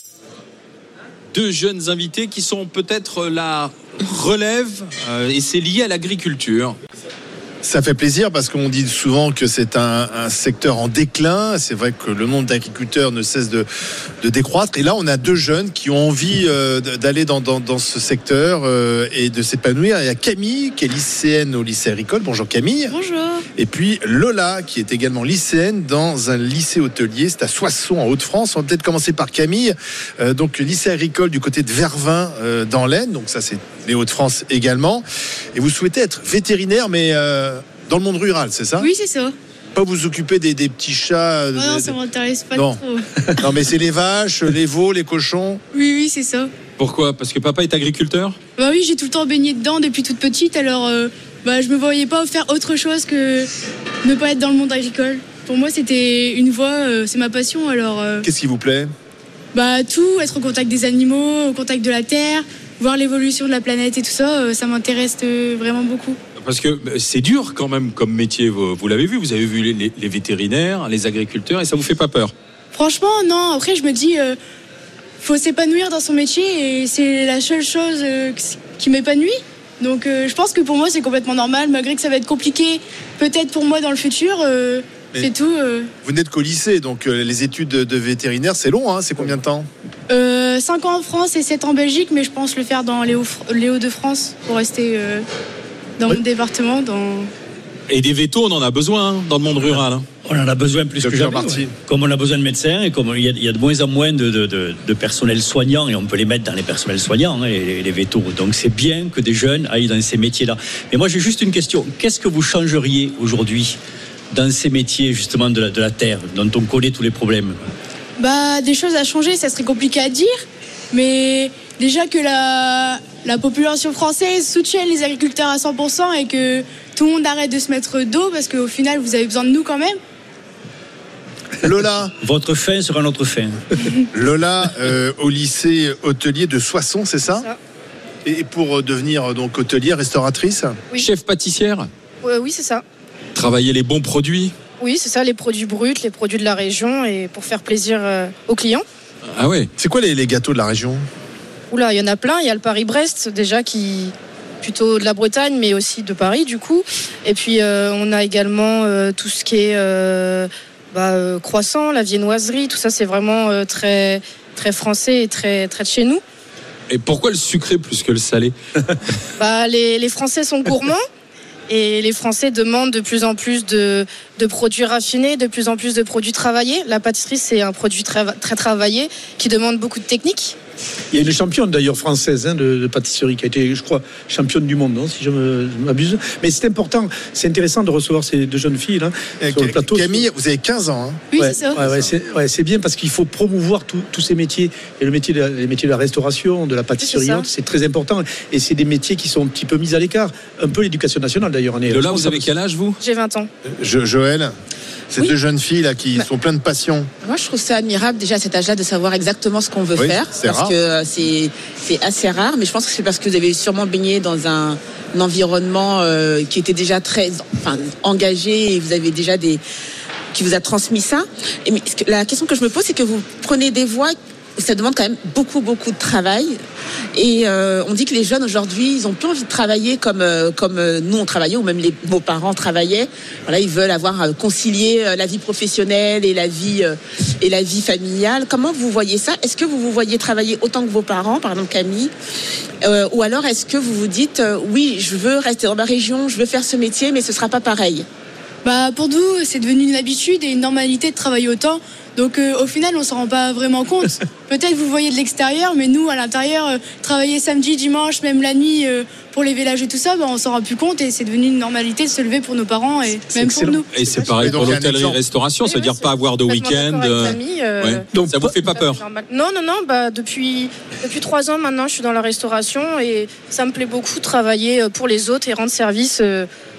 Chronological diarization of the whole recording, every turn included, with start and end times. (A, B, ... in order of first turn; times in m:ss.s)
0:01.3-0:06.8 A
0:07.6-0:13.6 B
0:14.2-0:22.9 B
0:22.9-0:23.4 C
0:23.6-0:38.9 B
0:38.8-0:39.3 C
0:39.8-0:41.9 B
0:41.6-0:43.1 C
0:43.4-0:45.6 B
0:45.7-0:46.5 C
0:46.8-0:48.4 A
0:48.6-0:53.5 C
0:54.0-0:58.2 C
0:58.2-0:58.9 B
0:59.5-1:06.2 C
1:06.4-1:12.3 A
1:12.7-1:14.4 C
1:15.2-1:25.9 C
1:26.0-1:29.7 B
1:30.1-1:35.2 C
1:36.0-1:37.3 C
1:37.9-1:40.1 A
1:40.2-1:53.8 D
1:41.0-1:41.7 B
1:54.3-1:57.6 D
1:58.2-2:00.3 C
2:00.9-2:10.0 C
2:11.6-2:12.1 B
2:12.2-2:13.6 D
2:14.1-2:17.4 B
2:18.2-2:20.8 B
2:21.0-2:21.9 A
2:22.2-2:22.8 E
2:23.3-2:24.5 A
2:24.8-2:28.8 E
2:29.3-2:29.7 A
2:29.8-2:31.0 B
2:31.7-2:46.2 E
2:46.9-2:48.5 A
2:49.4-2:51.0 E
2:51.7-3:00.6 E
3:01.1-3:10.2 F
3:09.4-3:11.2 B
3:11.3-3:11.8 C
3:11.4-3:22.5 F
3:17.0-3:17.5 E
3:21.9-3:23.0 A
3:23.0-3:23.5 E
3:23.8-3:24.5 B
3:25.1-3:27.1 B
3:27.2-3:39.6 G
3:30.0-3:30.7 B
3:40.3-3:46.5 G
3:47.1-4:02.1 G
4:02.8-4:08.0 G
4:08.6-4:23.9 C
4:23.3-4:24.4 F
4:23.9-4:29.0 A
4:24.3-4:25.2 B
4:25.6-4:28.1 E
4:28.1-4:28.6 F
4:28.7-4:36.5 E